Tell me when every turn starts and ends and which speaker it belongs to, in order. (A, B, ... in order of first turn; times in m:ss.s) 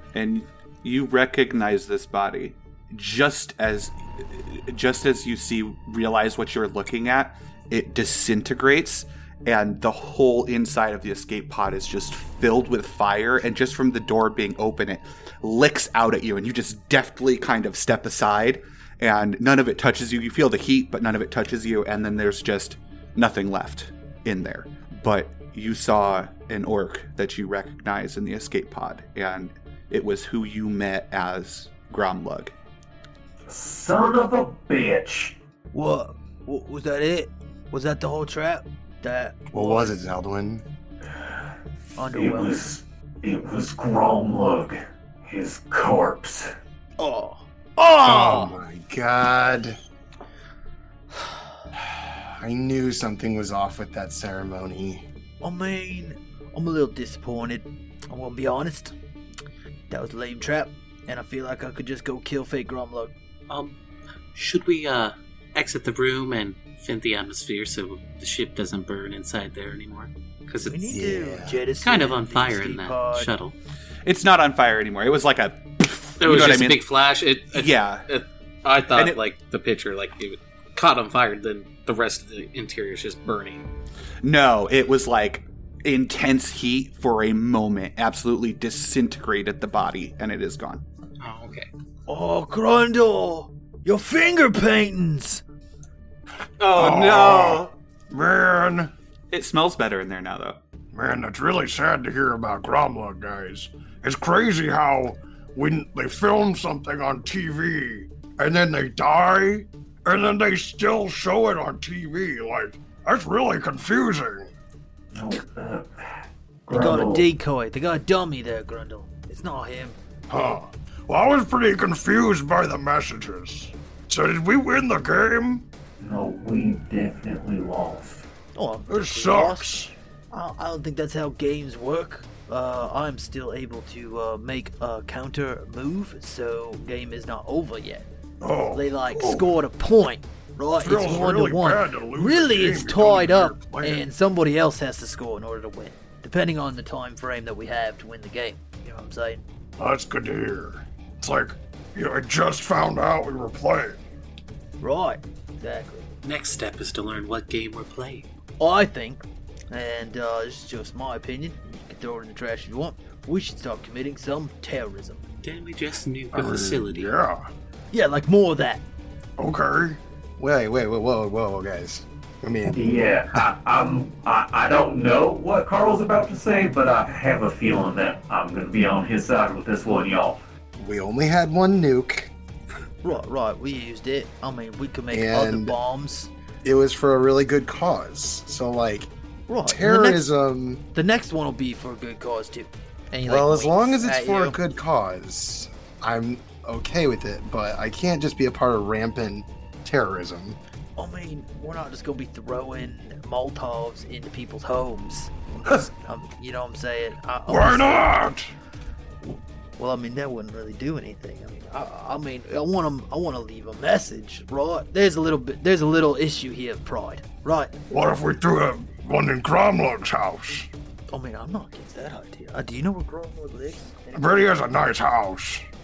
0:00.1-0:32.5 A
0:33.5-0:35.4 B
0:35.7-0:40.0 C
0:39.5-0:40.6 D
0:41.1-0:41.5 B
0:42.0-0:42.7 C
0:42.0-0:46.6 B
0:47.0-0:48.6 C
0:48.0-0:49.8 D
0:51.8-0:55.0 D
0:55.4-0:59.0 C
0:59.9-1:03.1 C
1:03.5-1:03.8 E
1:04.3-1:11.0 E
1:10.7-1:13.3 C
1:10.9-1:11.6 D
1:11.8-1:13.6 E
1:14.0-1:16.8 A
1:16.2-1:23.7 E
1:17.5-1:18.1 A
1:24.2-1:30.8 A
1:31.2-1:31.7 E
1:32.1-1:35.4 C
1:36.6-1:37.7 A
1:36.7-1:38.9 F
1:39.3-1:40.6 A
1:40.9-1:54.5 F
1:55.1-1:57.3 B
1:56.7-2:00.0 C
2:00.3-2:05.6 F
2:06.0-2:08.3 B
2:08.6-2:09.8 C
2:08.9-2:09.9 F
2:10.3-2:18.1 C
2:18.4-2:19.5 F
2:18.7-2:29.4 C
2:20.8-2:24.0 F
2:29.8-2:34.0 F
2:34.8-2:36.1 C
2:36.2-2:38.3 E
2:38.6-2:45.2 C
2:45.4-2:47.1 E
2:46.3-2:47.5 F
2:47.9-2:48.8 C
2:49.4-2:50.0 F
2:50.4-2:53.0 D
2:52.7-3:00.4 B
3:00.8-3:02.3 D
3:03.0-3:06.3 C
3:05.1-3:05.8 D
3:06.6-3:09.1 D
3:09.5-3:10.3 C
3:09.6-3:10.8 D
3:10.9-3:14.6 C
3:13.3-3:20.6 D
3:21.0-3:28.3 C
3:27.5-3:28.5 F
3:29.8-3:37.8 C
3:37.9-3:40.7 F
3:41.1-3:44.6 C
3:44.1-3:45.7 F